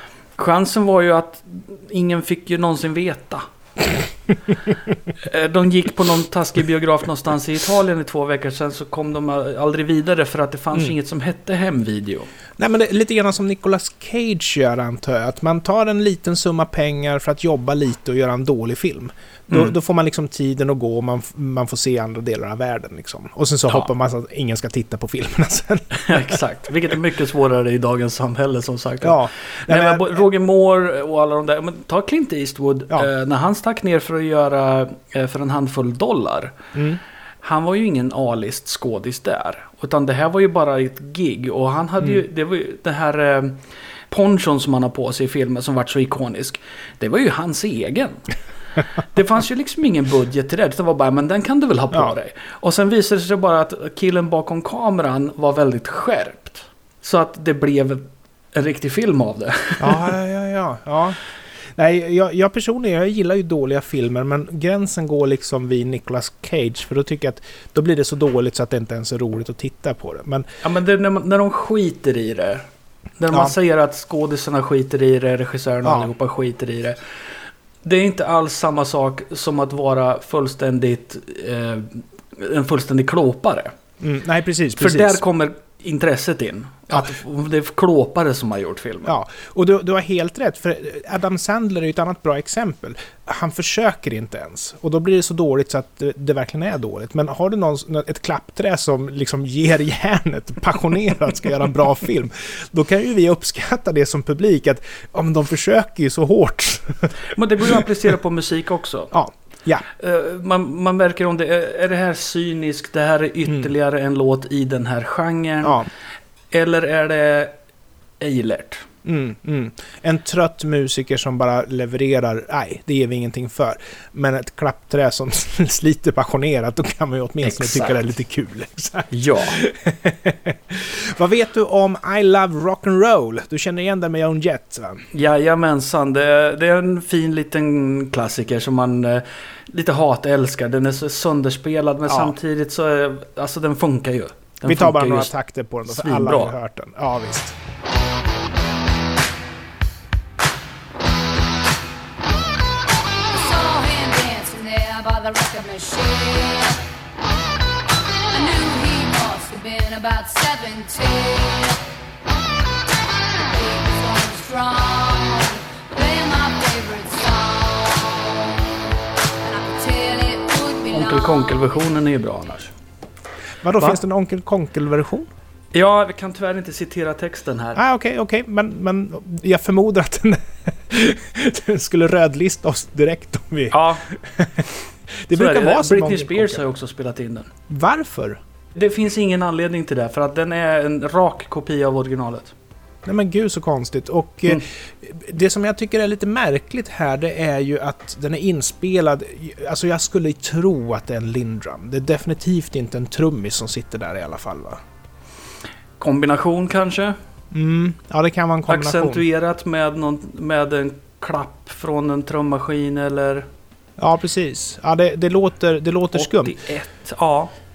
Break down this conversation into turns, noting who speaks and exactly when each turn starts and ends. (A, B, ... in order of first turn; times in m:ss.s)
0:00.4-0:03.4 A
0:05.2-0:12.3 A
0:12.6-0:26.3 B
0:19.5-0:19.7 A
0:25.9-0:36.6 A
0:29.0-0:30.2 B
0:36.7-0:37.0 B
0:37.4-0:48.3 A
0:49.1-1:00.1 A
0:59.8-1:01.2 B
1:01.7-1:10.5 B
1:10.6-1:12.6 A
1:13.2-1:17.0 A
1:15.8-1:16.1 B
1:17.8-1:23.7 A
1:24.0-1:25.2 B
1:24.8-1:29.2 A
1:29.0-1:47.1 B
1:47.3-1:49.1 A
1:49.1-1:49.8 B
1:49.9-1:55.8 A
1:55.6-1:55.9 B
1:56.5-1:57.5 A
1:58.2-1:58.8 A
1:59.0-2:15.0 B
2:07.5-2:07.9 A
2:09.1-2:09.6 A
2:15.1-2:25.3 A
2:22.1-2:22.4 B
2:24.6-2:27.6 B
2:25.9-2:26.5 A
2:33.3-2:36.8 C
2:38.3-2:41.8 C
2:43.4-2:48.4 C
2:49.4-2:51.6 C
2:50.9-2:52.7 A
2:53.6-2:55.3 B
2:55.7-2:57.8 A
2:57.7-3:06.6 B
3:03.7-3:04.0 A
3:05.3-3:07.5 A
3:07.7-3:08.4 B
3:08.7-3:12.5 A
3:13.0-3:24.8 B
3:26.0-3:27.2 A
3:27.5-3:29.2 B
3:28.7-3:33.5 A
3:34.0-3:36.5 B
3:36.1-3:37.5 A